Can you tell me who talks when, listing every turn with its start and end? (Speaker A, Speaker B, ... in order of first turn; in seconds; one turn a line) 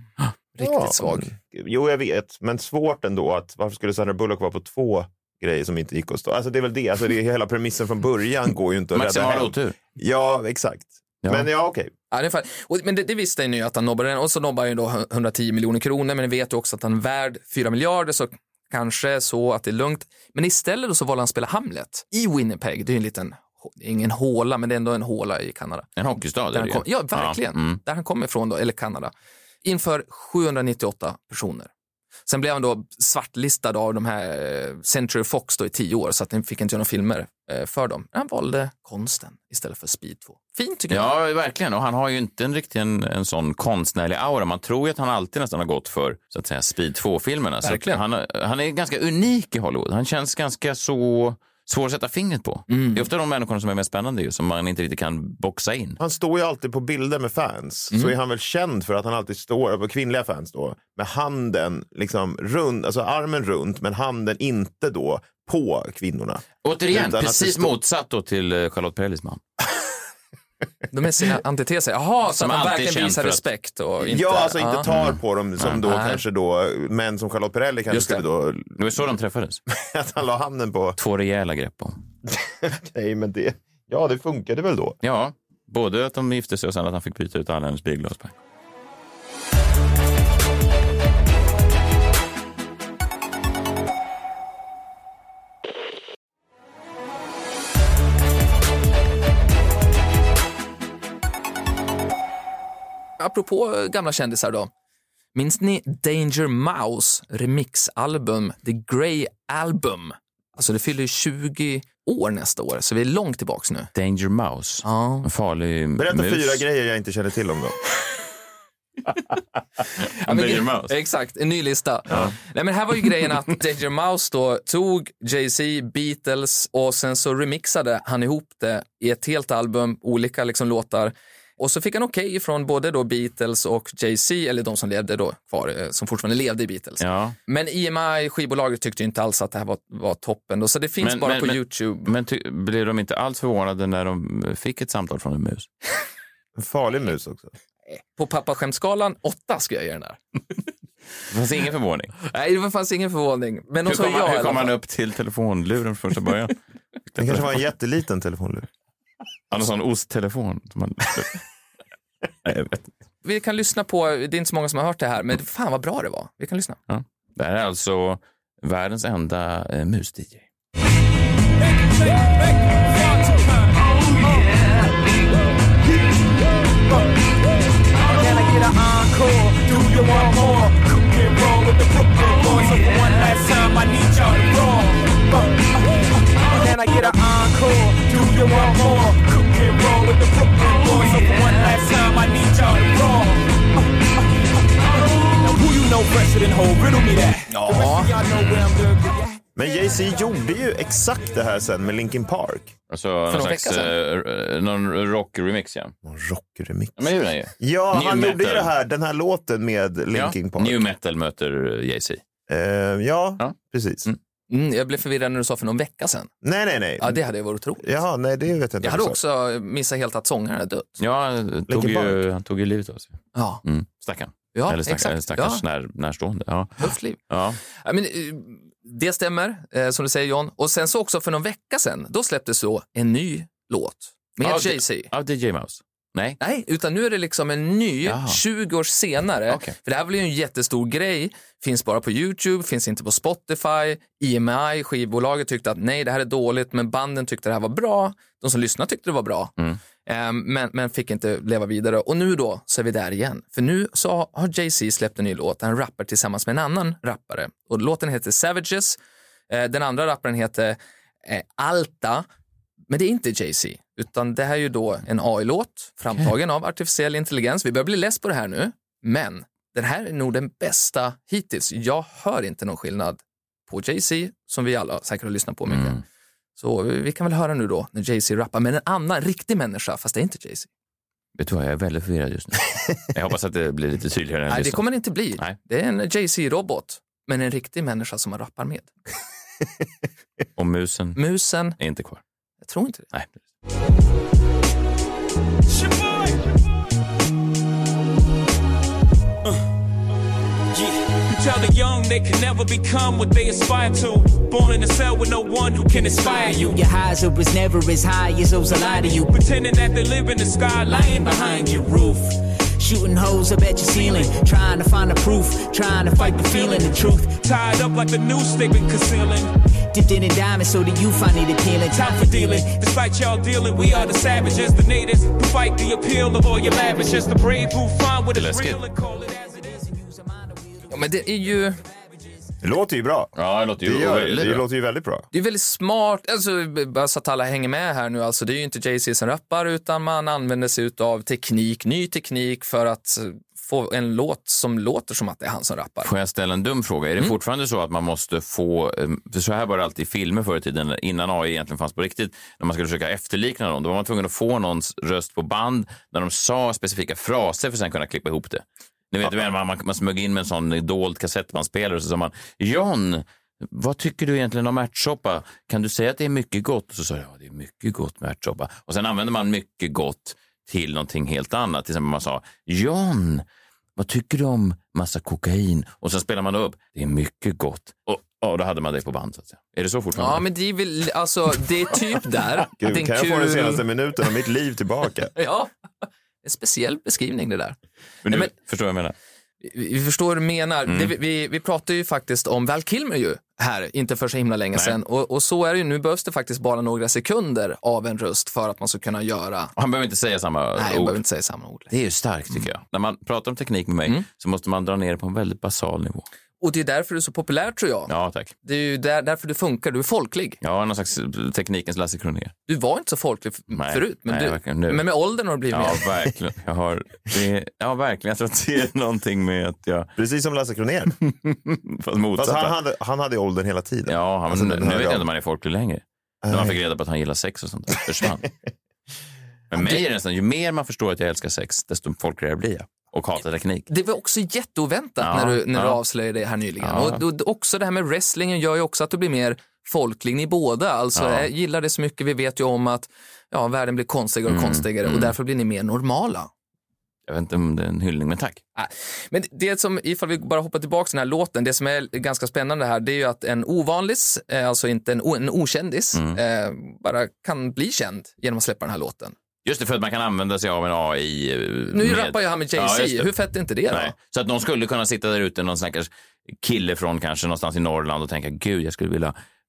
Speaker A: 0.6-1.3
Speaker B: 0.6-11.9
Speaker C: 8.9-9.8
Speaker A: 12.1-25.9
Speaker C: 26.0-27.8
Speaker A: 26.5-29.1
Speaker A: 29.6-31.7
Speaker A: 32.3-41.1
Speaker C: 40.9-56.0
Speaker A: 47.6-48.0
Speaker A: 52.7-53.1
Speaker B: 56.0-67.7
Speaker C: 66.6-69.4
Speaker A: 70.9-74.9
Speaker C: 72.3-73.5
Speaker B: 74.0-78.8
Speaker C: 74.9-75.8
Speaker A: 75.8-76.2
Speaker A: 77.9-78.2
Speaker C: 78.8-79.6
Speaker B: 79.7-81.0
Speaker C: 81.0-82.0
Speaker B: 82.3-85.0
Speaker C: 85.0-88.3
Speaker A: 103.2-104.7
Speaker A: 105.3-113.9
Speaker C: 113.9-116.6
Speaker A: 114.8-115.3
Speaker B: 116.0-117.8
Speaker C: 120.0-120.9
Speaker A: 120.2-142.1
Speaker C: 137.0-137.4
Speaker C: 141.0-145.7
Speaker B: 146.6-147.5
Speaker A: 147.9-150.2
Speaker C: 151.3-152.2
Speaker A: 152.2-154.7
Speaker C: 153.8-156.6
Speaker C: 157.1-157.6
Speaker B: 157.2-158.7
Speaker C: 159.5-161.4
Speaker C: 162.4-162.9
Speaker A: 163.2-166.8
Speaker C: 166.9-170.5
Speaker D: 171.6-174.6
Speaker D: 178.0-194.2
Speaker D: 195.4-199.4
Speaker A: 197.5-198.1
Speaker C: 198.3-198.6
Speaker B: 199.6-202.7
Speaker C: 202.9-205.9
Speaker A: 203.3-203.9
Speaker B: 206.0-207.1
Speaker C: 207.0-208.7
Speaker B: 207.6-210.9
Speaker C: 210.1-212.2
Speaker B: 212.5-214.1
Speaker A: 214.5-216.3
Speaker B: 216.4-217.2
Speaker A: 217.0-217.9
Speaker B: 217.8-219.2
Speaker A: 218.8-221.0
Speaker C: 221.0-227.6
Speaker B: 221.7-222.2
Speaker A: 223.3-223.6
Speaker A: 224.5-225.6
Speaker A: 226.8-227.2
Speaker A: 227.7-235.1
Speaker C: 234.4-236.4
Speaker A: 236.4-249.5
Speaker C: 238.1-238.4
Speaker C: 239.5-239.8
Speaker A: 250.1-259.0
Speaker A: 259.5-262.2
Speaker A: 262.9-276.0
Speaker C: 275.7-276.0
Speaker A: 276.6-280.7
Speaker C: 281.4-285.6
Speaker A: 284.5-288.9
Speaker C: 290.6-291.2
Speaker A: 291.2-291.8
Speaker C: 291.8-292.2
Speaker A: 292.6-293.1
Speaker D: 295.7-296.4
Speaker D: 300.7-306.8
Speaker E: 305.9-309.4
Speaker D: 308.7-312.3
Speaker E: 310.9-311.9
Speaker E: 312.8-317.4
Speaker D: 313.9-314.3
Speaker D: 316.1-319.5
Speaker E: 319.9-322.8
Speaker D: 321.9-329.7
Speaker C: 328.3-328.8
Speaker E: 330.4-330.8
Speaker A: 330.9-331.8
Speaker B: 332.6-335.2
Speaker C: 333.4-334.6
Speaker A: 335.3-346.1
Speaker C: 346.0-373.4
Speaker C: 374.0-380.4
Speaker A: 380.1-383.9
Speaker B: 382.8-385.3
Speaker A: 385.4-388.5
Speaker C: 388.2-389.1
Speaker A: 389.6-399.7
Speaker C: 390.9-391.1
Speaker C: 399.8-401.2
Speaker A: 400.8-401.9
Speaker C: 401.9-406.2
Speaker A: 406.6-408.1
Speaker C: 408.1-408.5
Speaker A: 408.6-410.6
Speaker C: 410.6-412.5
Speaker A: 412.7-416.1
Speaker C: 413.7-415.1
Speaker C: 415.7-420.1
Speaker B: 420.2-421.1
Speaker C: 421.2-422.7
Speaker B: 422.4-425.3
Speaker C: 424.1-428.5
Speaker B: 426.4-426.8
Speaker C: 429.7-433.9
Speaker A: 433.9-446.5
Speaker C: 435.2-436.0
Speaker C: 436.8-437.2
Speaker C: 441.2-441.5
Speaker C: 444.5-445.3
Speaker C: 447.3-448.6
Speaker A: 448.8-459.4
Speaker C: 459.6-463.3
Speaker A: 461.9-464.1
Speaker C: 463.9-469.4